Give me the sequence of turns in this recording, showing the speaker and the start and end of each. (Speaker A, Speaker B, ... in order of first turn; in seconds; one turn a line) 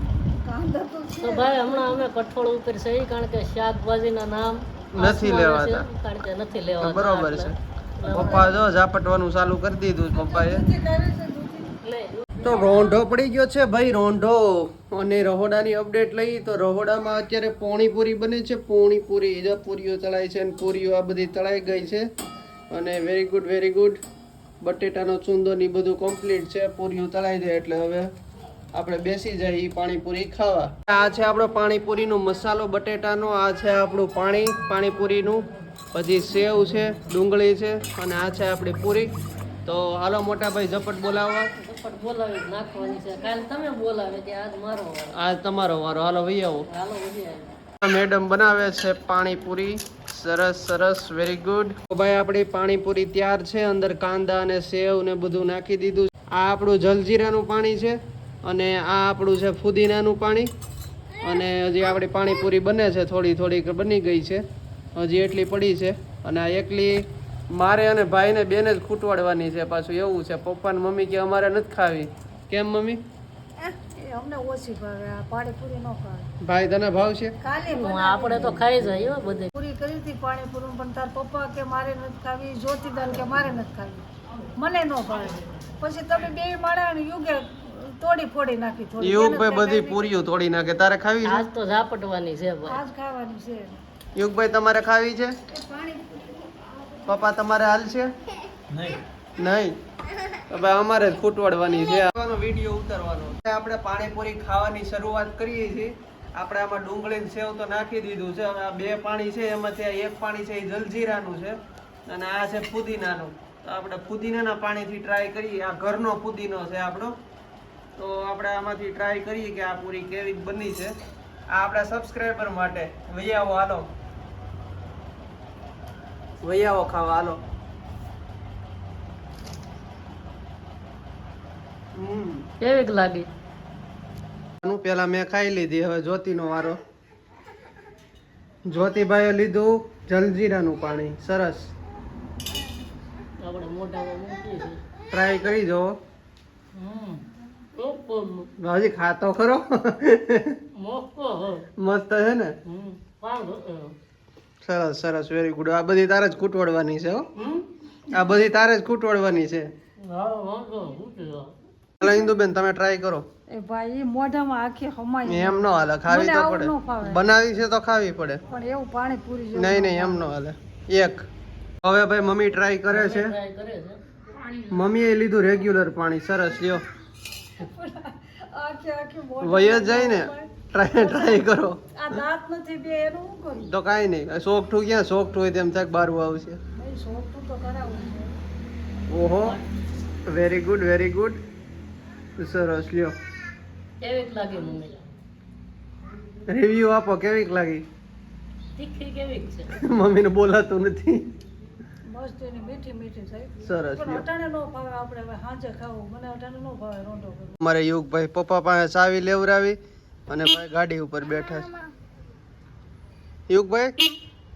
Speaker A: 0.2-2.1
Speaker B: 1.2-8.6
Speaker C: 4.9-5.9
Speaker C: 6.8-10.7
Speaker A: 10.1-11.8
Speaker B: 11.8-12.6
Speaker C: 12.4-22.1
Speaker C: 22.7-24.0
Speaker C: 24.6-28.1
Speaker C: 28.7-39.1
Speaker C: 39.6-41.5
Speaker B: 41.5-45.1
Speaker C: 45.1-46.7
Speaker B: 46.7-47.6
Speaker C: 47.8-60.5
Speaker C: 61.2-64.4
Speaker C: 64.9-73.0
Speaker A: 73.6-76.3
Speaker C: 76.4-77.3
Speaker A: 77.4-78.9
Speaker B: 77.7-79.5
Speaker A: 79.5-84.0
Speaker A: 84.5-90.1
Speaker C: 89.0-91.4
Speaker B: 91.2-92.8
Speaker A: 92.7-93.8
Speaker C: 94.2-95.3
Speaker A: 95.5-96.7
Speaker C: 97.0-98.1
Speaker C: 99.4-99.8
Speaker C: 100.5-117.1
Speaker C: 118.0-120.9
Speaker C: 121.5-123.9
Speaker C: 126.4-127.4
Speaker C: 131.9-132.5
Speaker B: 132.6-133.3
Speaker C: 134.6-136.8
Speaker C: 138.7-141.7
Speaker B: 143.4-144.8
Speaker C: 145.1-146.0
Speaker B: 146.7-147.2
Speaker B: 147.7-148.5
Speaker C: 148.6-150.6
Speaker B: 150.7-151.7
Speaker C: 151.8-152.5
Speaker B: 152.6-153.9
Speaker C: 154.6-157.3
Speaker B: 157.3-157.6
Speaker C: 158.1-159.7
Speaker B: 160.0-161.5
Speaker C: 162.0-163.2
Speaker A: 163.5-167.2
Speaker C: 165.2-168.4
Speaker A: 168.5-170.3
Speaker C: 169.5-171.2
Speaker C: 171.8-173.3
Speaker B: 172.9-174.7
Speaker C: 174.7-176.8
Speaker A: 177.6-183.7
Speaker C: 179.4-182.2
Speaker C: 183.6-186.6
Speaker A: 186.7-188.3
Speaker C: 189.1-189.6
Speaker C: 190.3-191.4
Speaker C: 192.4-193.1
Speaker B: 194.0-195.1
Speaker C: 196.5-197.8
Speaker B: 198.8-199.7
Speaker C: 199.7-201.3
Speaker A: 202.1-207.6
Speaker C: 203.6-204.2
Speaker C: 207.6-209.8
Speaker C: 210.3-211.7
Speaker C: 213.5-213.9